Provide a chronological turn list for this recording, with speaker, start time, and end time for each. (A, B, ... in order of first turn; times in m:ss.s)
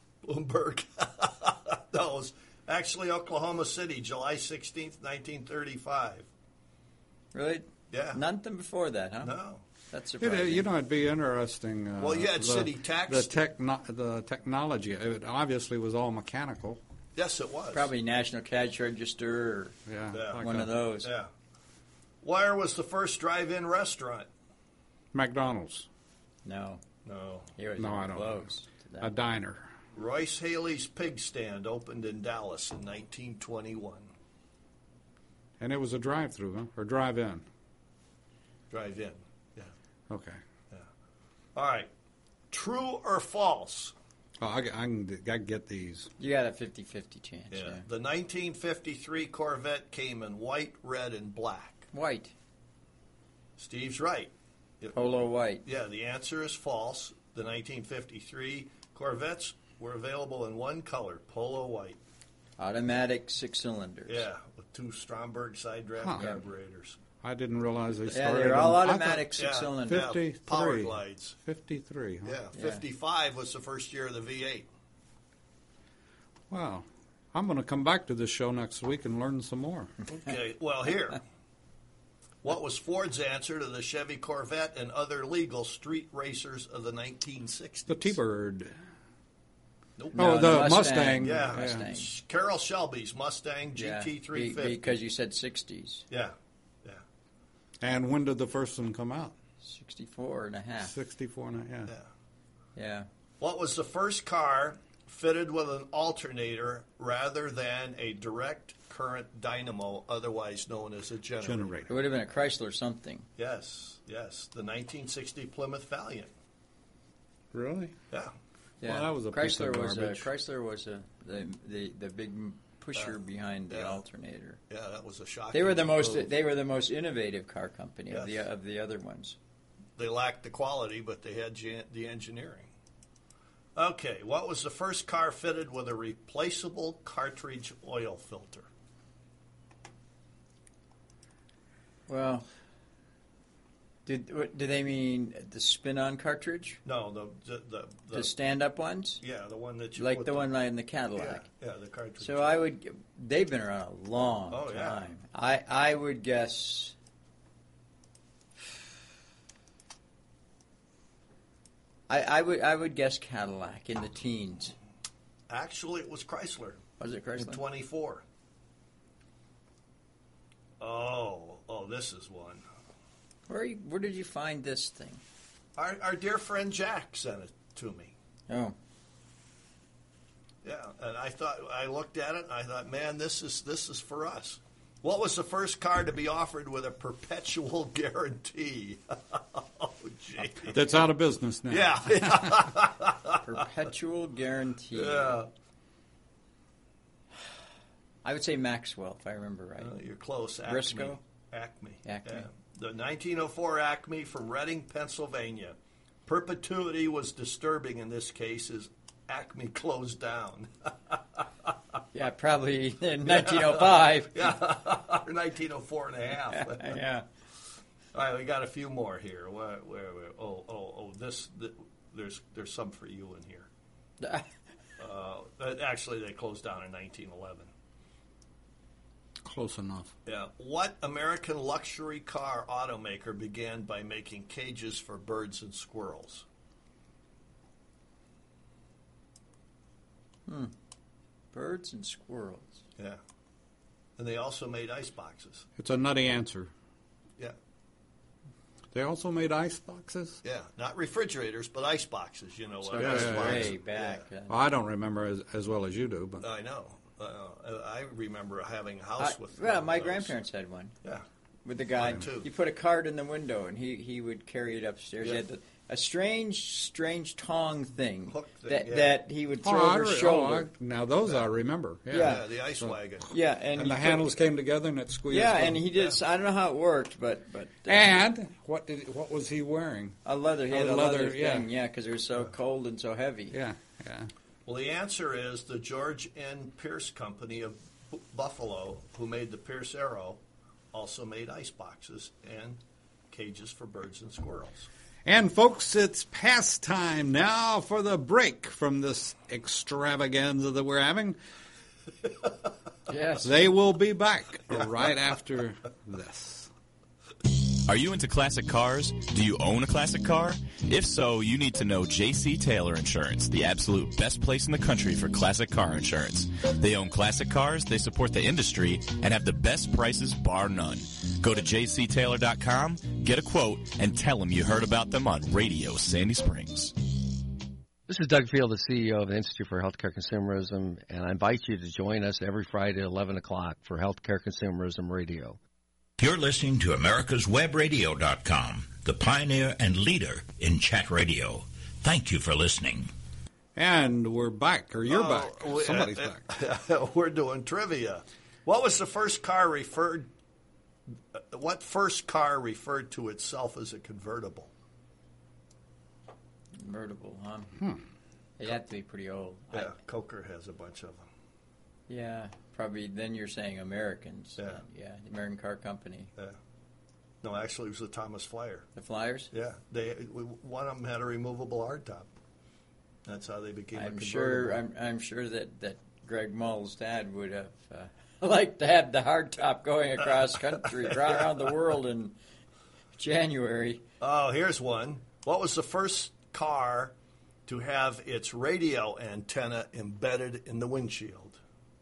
0:00.2-0:06.3 A
0:07.3-0:09.3 B
0:07.9-0:08.2 A
0:09.2-0:09.6 A
0:09.9-0:10.7 B
0:10.2-0:16.8 C
0:12.0-0:13.3 A
0:17.1-0:17.9 A
0:17.7-0:19.8 B
0:19.9-0:20.7 C
0:20.1-0:21.3 A
0:20.4-0:21.1 B
0:22.2-0:24.3 A
0:25.1-0:25.9 C
0:26.4-0:26.8 B
0:27.0-0:27.5 A
0:27.6-0:29.1 B
0:27.8-0:28.4 C
0:29.0-0:29.7 C
0:29.9-0:34.1 A
0:35.6-0:37.4 C
0:38.7-0:39.7 A
0:40.1-0:40.4 C
0:41.5-0:41.9 A
0:42.5-0:43.9 A
0:44.4-0:46.1 C
0:46.2-0:47.8 B
0:47.5-0:51.9 A
0:51.9-0:52.3 B
0:53.6-0:55.0 A
0:54.9-0:55.6 B
0:55.6-1:02.0 A
1:02.6-1:04.2 B
1:04.1-1:07.0 A
1:06.0-1:06.3 C
1:07.2-1:09.3 C
1:08.1-1:10.1 B
1:09.4-1:11.4 A
1:09.9-1:12.4 C
1:12.2-1:14.7 A
1:12.5-1:12.8 B
1:16.5-1:19.9 C
1:20.1-1:21.2 A
1:22.4-1:28.2 A
1:27.9-1:28.7 C
1:30.0-1:35.0 A
1:30.1-1:32.1 B
1:30.1-1:31.9 C
1:33.8-1:36.0 B
1:36.1-1:37.0 A
1:37.8-1:39.3 C
1:39.6-1:40.9 B
1:40.8-1:41.9 C
1:42.8-1:43.1 B
1:43.4-1:51.9 A
1:51.4-1:51.9 C
1:51.9-1:53.2 B
1:53.4-1:56.3 A
1:57.5-1:57.9 C
1:58.8-2:04.6 B
1:58.8-2:00.3 C
2:03.7-2:04.0 A
2:04.7-2:06.3 A
2:05.5-2:09.4 B
2:08.1-2:08.4 A
2:10.0-2:12.7 A
2:13.8-2:18.7 A
2:22.1-2:22.5 B
2:24.0-2:26.8 B
2:26.8-2:28.3 A
2:28.1-2:29.2 B
2:29.2-2:30.5 A
2:30.0-2:31.4 B
2:31.2-2:32.6 A
2:32.2-2:36.9 B
2:34.5-2:35.1 A
2:42.1-2:44.8 B
2:45.5-2:46.8 A
2:47.0-2:47.6 B
2:47.4-2:48.2 A
2:50.8-2:52.6 A
2:53.5-2:55.2 B
2:55.8-2:58.1 A
2:58.5-2:58.8 B
3:00.6-3:10.8 A
3:10.7-3:12.7 C
3:11.7-3:13.4 A
3:13.4-3:15.4 B
3:14.9-3:15.5 A
3:18.2-3:19.9 B
3:19.8-3:31.2 A
3:20.6-3:21.2 B
3:22.0-3:22.5 B
3:32.1-3:34.6 B
3:33.2-3:37.0 A
3:36.5-3:37.2 B
3:38.1-3:43.7 A
3:44.2-3:44.5 B
3:45.0-3:47.7 A
3:49.4-3:50.1 C
3:50.2-3:56.4 A
4:00.5-4:00.7 B
4:01.5-4:02.8 B
4:04.2-4:05.7 A
4:05.8-4:06.7 C
4:08.9-4:10.4 C
4:10.4-4:14.2 A
4:12.8-4:14.6 B
4:13.0-4:13.8 C
4:14.5-4:16.4 C
4:16.4-4:20.3 A
4:19.2-4:20.9 B
4:21.6-4:30.7 B
4:22.0-4:22.5 A
4:28.3-4:29.2 A
4:29.6-4:32.9 C
4:32.1-4:32.4 B
4:32.1-4:33.3 A
4:33.3-4:34.3 B
4:33.8-4:35.9 C
4:35.3-4:38.2 B
4:37.9-4:40.2 C
4:40.2-4:43.6 B
4:40.7-4:41.7 C
4:43.5-4:44.3 C
4:44.6-4:50.4 A
4:50.9-4:52.8 A
4:53.3-4:54.9 A
4:55.2-5:01.4 C
5:03.1-5:03.6 B
5:03.4-5:06.7 C
5:07.5-5:26.9 D
5:28.1-5:35.6 E
5:36.2-5:43.1 F
5:43.8-5:46.4 C
5:45.1-5:50.3 A
5:51.3-5:54.7 A
5:56.8-5:57.8 B
5:58.6-6:00.0 B
5:59.7-6:01.2 A
6:02.1-6:06.3 B
6:07.4-6:08.9 A
6:09.0-6:09.5 B
6:09.5-6:12.3 A
6:13.2-6:14.8 A
6:13.9-6:22.4 B
6:20.8-6:21.5 A
6:23.2-6:24.0 B
6:24.2-6:27.1 A
6:27.7-6:31.6 A